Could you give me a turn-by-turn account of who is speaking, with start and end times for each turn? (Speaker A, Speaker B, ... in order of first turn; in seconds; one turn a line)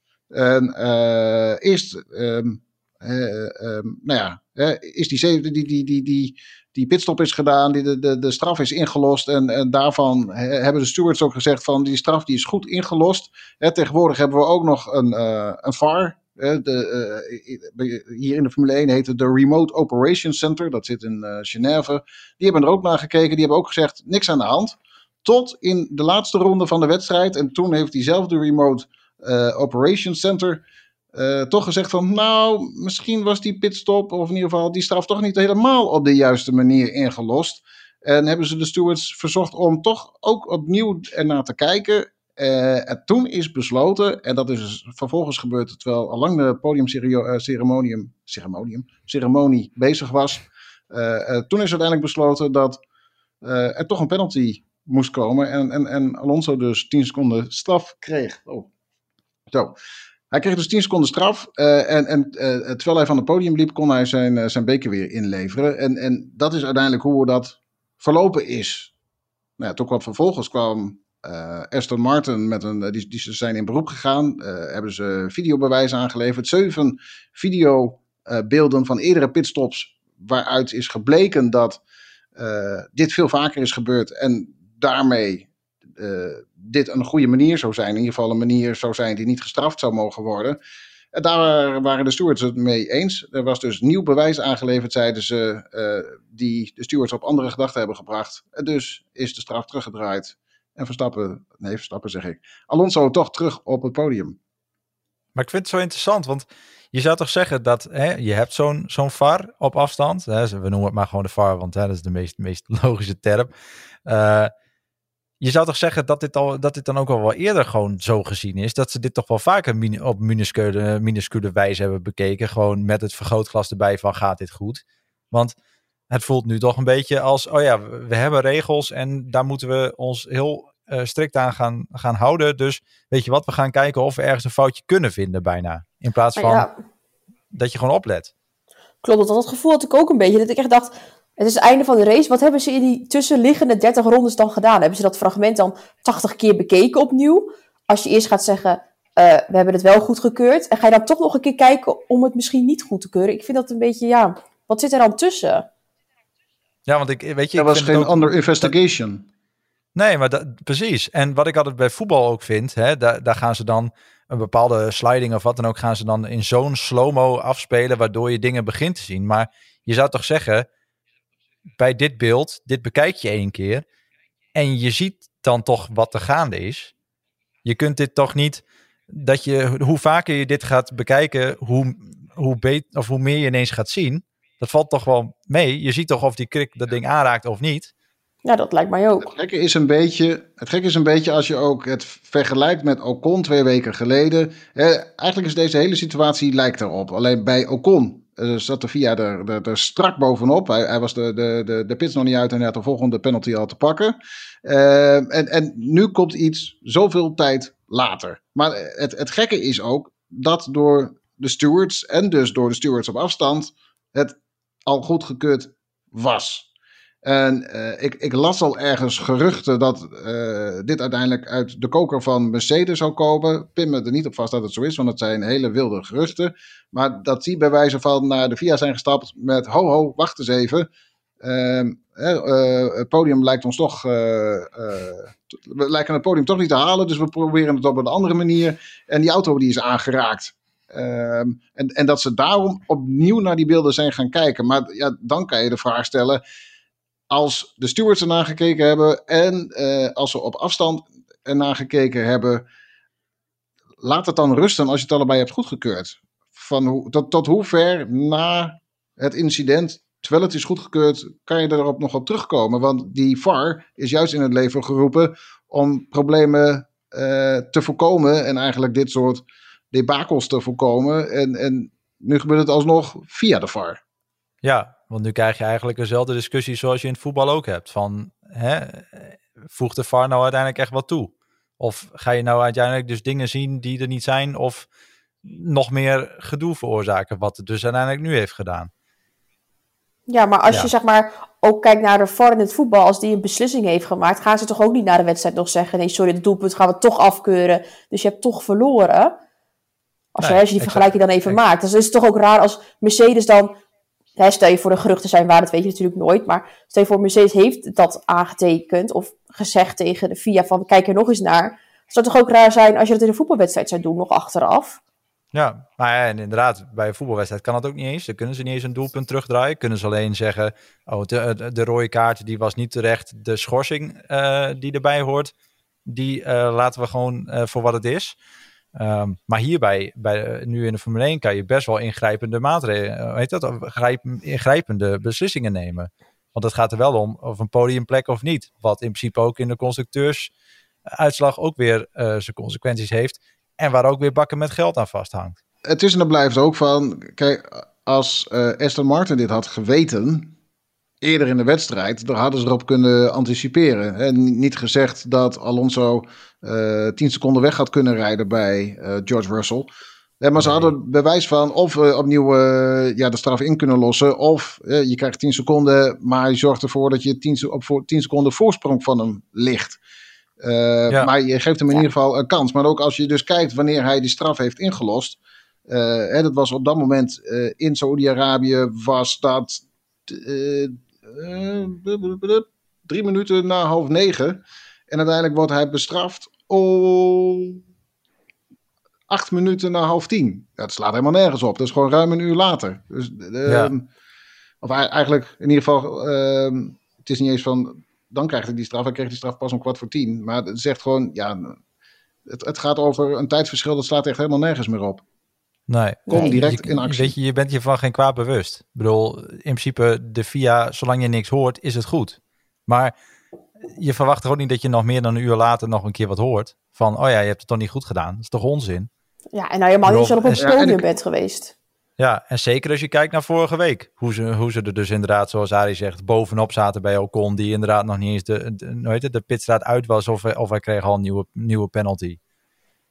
Speaker A: 0.3-30.6
Speaker A: 31.1-52.8
Speaker A: 53.4-58.7
Speaker A: 60.3-68.9
Speaker A: 69.6-81.8
Speaker A: 82.4-90.6
Speaker A: 91.1-104.4
Speaker B: 105.3-113.5
Speaker B: 114.1-114.5
Speaker B: 115.4-125.5
Speaker B: 126.1-136.7
Speaker C: 136.4-136.7
Speaker B: 137.5-138.3
Speaker C: 139.0-155.7
Speaker B: 156.9-158.7
Speaker A: 157.6-159.3
Speaker B: 159.9-170.7
Speaker B: 171.8-173.8
Speaker B: 174.6-176.9
Speaker B: 177.7-187.9
Speaker C: 188.4-189.3
Speaker A: 189.2-216.7
Speaker A: 217.2-230.9
Speaker A: 231.4-246.4
Speaker A: 247.3-252.7
Speaker A: 254.0-274.0
Speaker B: 274.6-284.9
Speaker B: 285.4-288.9
Speaker C: 290.3-299.4
Speaker C: 300.4-303.8
Speaker B: 300.4-301.6
Speaker C: 304.4-315.0
Speaker B: 315.5-325.5
Speaker B: 326.1-328.4
Speaker B: 328.9-340.5
Speaker B: 341.1-345.6
Speaker A: 345.9-350.5
Speaker A: 351.2-359.9
Speaker A: 360.4-370.0
Speaker B: 360.6-360.9
Speaker A: 370.6-387.8
Speaker A: 389.3-394.1
Speaker B: 393.7-393.9
Speaker A: 394.8-401.8
Speaker A: 402.5-405.2
Speaker B: 405.9-413.1
Speaker A: 406.3-407.4
Speaker B: 413.9-419.1
Speaker C: 419.5-421.7
Speaker B: 420.0-420.7
Speaker A: 420.6-421.0
Speaker B: 422.2-432.4